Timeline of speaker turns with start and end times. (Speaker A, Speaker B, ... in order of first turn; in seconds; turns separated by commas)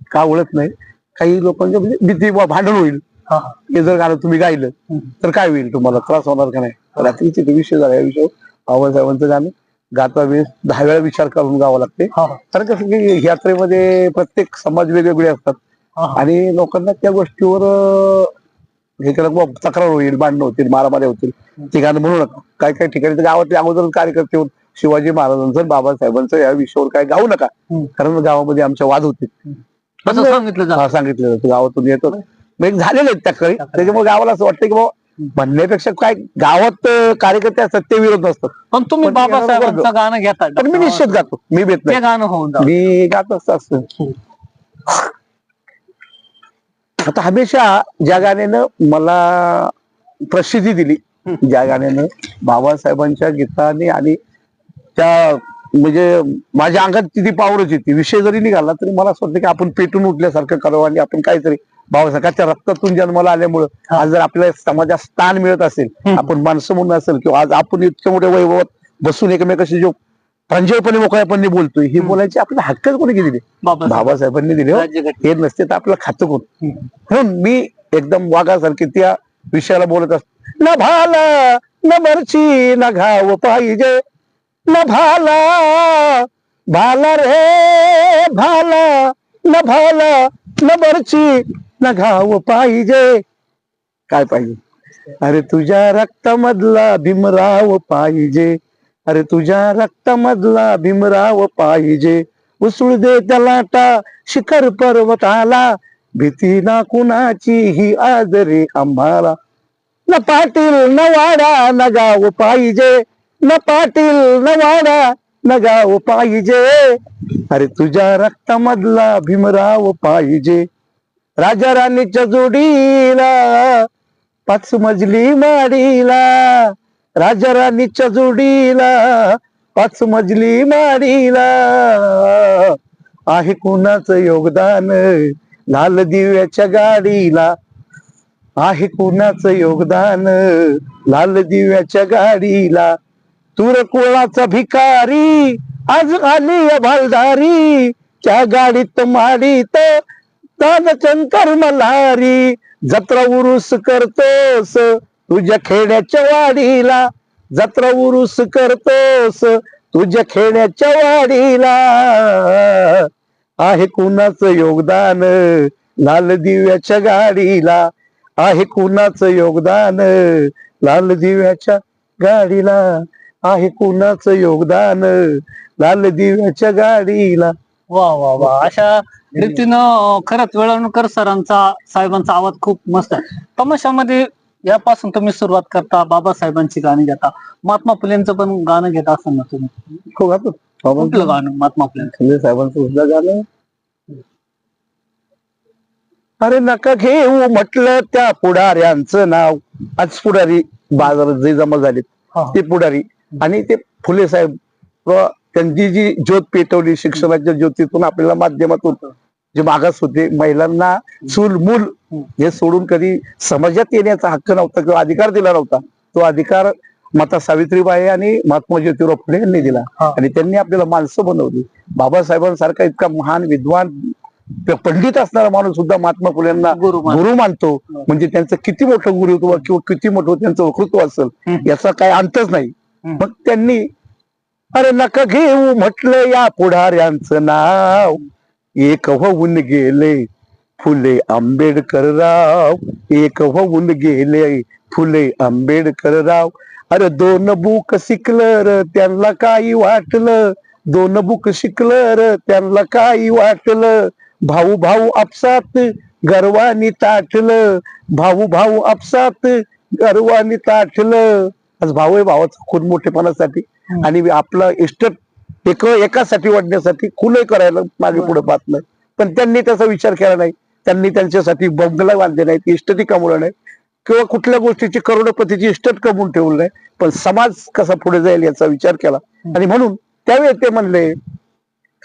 Speaker A: 0.1-3.0, Speaker B: 3.3-3.6, Speaker A: 3.7-15.6, Speaker B: 12.1-12.4, Speaker B: 16.0-16.3, Speaker A: 16.1-18.3, Speaker A: 19.0-29.4, Speaker B: 30.1-30.9, Speaker A: 30.1-39.9, Speaker B: 33.6-33.9, Speaker B: 38.7-41.2, Speaker A: 40.6-42.0, Speaker B: 41.9-42.7, Speaker A: 42.6-43.9, Speaker A: 47.0-49.7, Speaker A: 50.3-54.2, Speaker A: 55.0-70.0, Speaker A: 70.5-76.5, Speaker B: 73.6-74.1, Speaker B: 74.7-75.2, Speaker A: 77.1-84.0, Speaker A: 84.7-93.2, Speaker A: 94.1-94.6, Speaker A: 95.2-109.4, Speaker A: 110.1-117.0, Speaker A: 117.5-120.7, Speaker A: 121.4-123.9, Speaker A: 124.5-132.8, Speaker A: 133.3-137.5, Speaker A: 138.6-143.0, Speaker A: 143.6-150.0, Speaker A: 150.6-163.1, Speaker A: 163.6-177.5, Speaker B: 177.9-189.8, Speaker A: 178.4-178.7, Speaker A: 190.1-191.3, Speaker B: 190.9-192.1, Speaker A: 192.0-193.5, Speaker A: 196.4-209.0, Speaker A: 209.5-233.8, Speaker B: 219.8-220.2, Speaker B: 226.7-227.2, Speaker A: 234.7-238.2, Speaker A: 238.8-240.3, Speaker A: 240.8-273.5, Speaker A: 274.1-281.1